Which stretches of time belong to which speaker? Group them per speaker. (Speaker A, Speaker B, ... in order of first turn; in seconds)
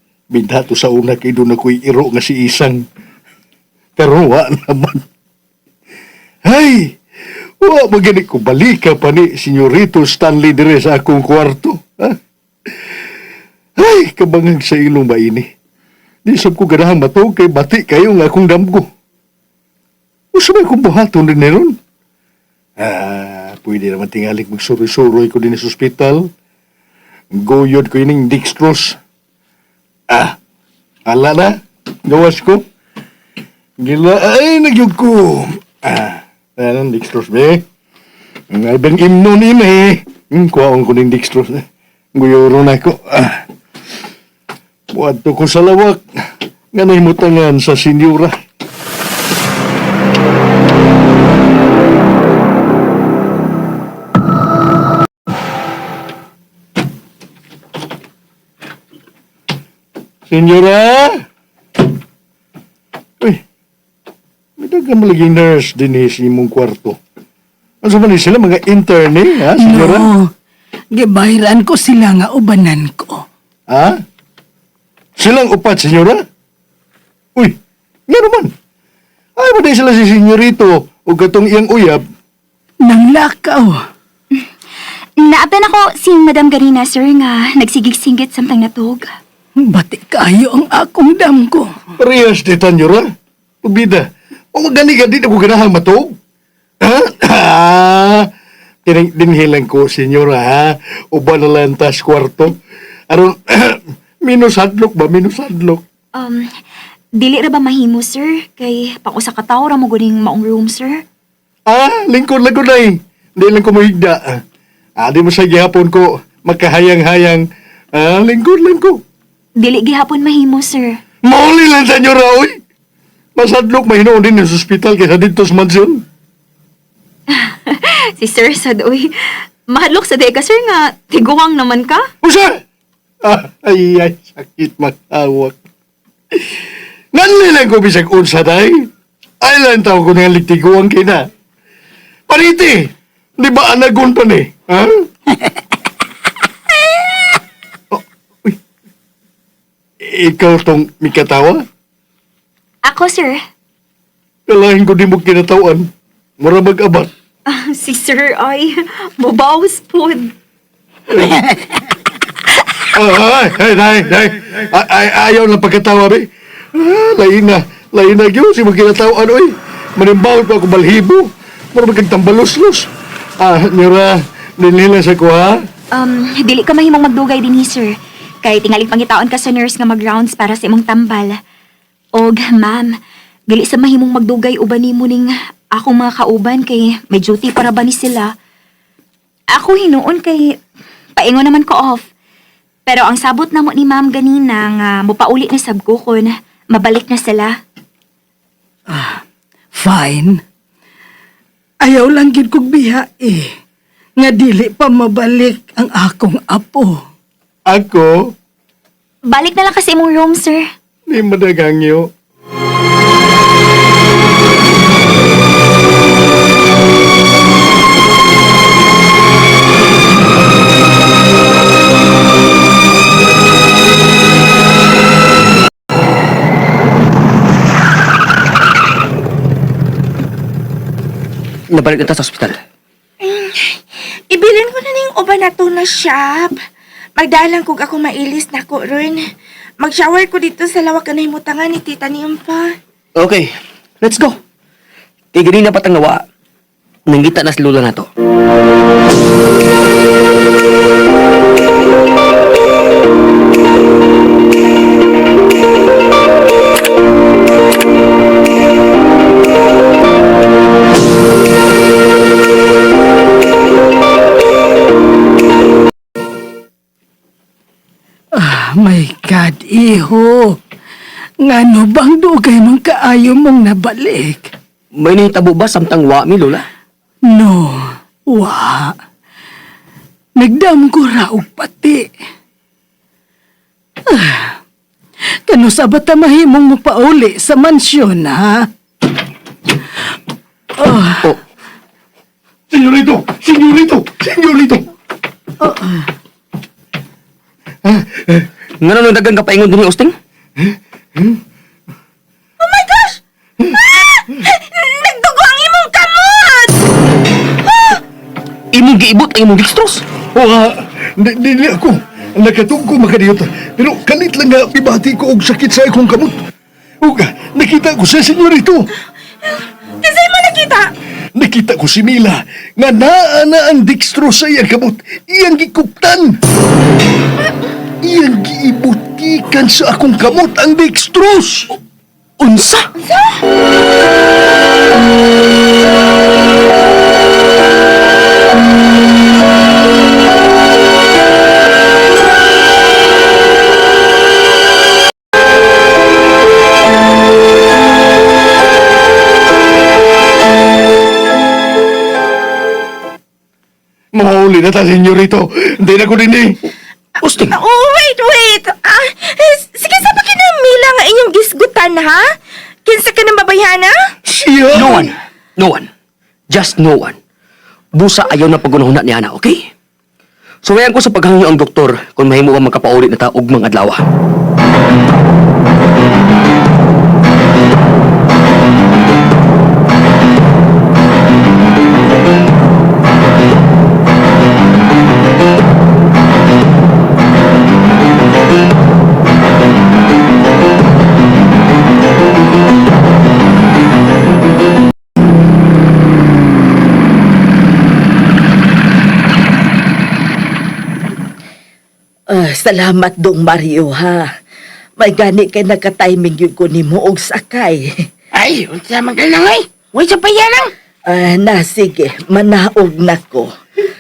Speaker A: 0.3-2.8, 4.0-5.0, 6.5-6.9, 7.6-12.2, 13.8-15.5, 16.3-18.9, 20.3-21.8, 22.8-26.3, 27.4-29.0, 30.1-30.4, 31.1-32.6, 33.8-37.6, 38.5-41.6, 42.1-43.4, 44.9-46.0, 46.7-48.4, 60.3-61.1, 64.6-67.0, 67.8-70.1, 73.7-74.0, 75.2-76.2, 78.1-78.5, 79.4-82.0, 92.0-93.0, 93.6-96.2, 96.8-98.3, 98.8-102.6, 103.1-105.8, 111.7-114.3, 115.0-119.0, 121.2-122.6, 123.4-126.0, 132.2-132.6, 133.2-135.6, 137.1-138.7, 139.4-141.2, 142.3-142.8, 143.4-145.1, 147.9-148.6, 150.1-151.6, 154.5-155.9, 156.4-157.1, 161.1-161.5, 162.9-175.6, 207.7-208.2, 211.1-212.1, 292.7-294.9, 297.9-298.5, 310.3-316.4, 317.0-318.9, 321.4-326.4, 328.0-331.8, 354.1-356.6, 364.3-365.1
Speaker B: 69.5-70.3, 70.9-73.2, 82.8-83.8, 89.7-91.7, 198.9-199.2, 199.8-200.4, 201.8-203.5, 204.2-207.0, 268.4-270.6, 271.4-274.5, 277.3-278.9, 280.4-282.1, 284.1-284.6, 285.5-288.7, 290.8-291.4, 295.6-296.1
Speaker C: 85.2-89.2, 106.1-106.5, 107.2-111.0, 119.6-121.0, 127.3-132.1, 152.8-153.4, 157.5-160.3, 175.9-177.9, 178.4-181.4, 182.2-182.9, 183.5-188.3, 189.5-190.5, 191.2-192.1, 192.9-197.5, 209.3-210.7
Speaker D: 231.7-232.6, 243.2-244.4, 245.3-246.2, 247.1-248.1, 275.0-276.7, 298.8-300.1, 308.7-310.0, 332.4-332.9, 357.2-357.6, 364.7-365.9, 366.5-367.2, 367.9-369.7, 370.6-374.0
Speaker E: 233.2-236.6, 237.2-239.2, 239.8-242.8, 302.6-306.8, 307.7-308.0, 319.5-320.9, 357.4-362.4, 362.9-364.0
Speaker F: 402.4-404.2, 405.0-407.8, 411.1-413.5
Speaker G: 408.4-410.7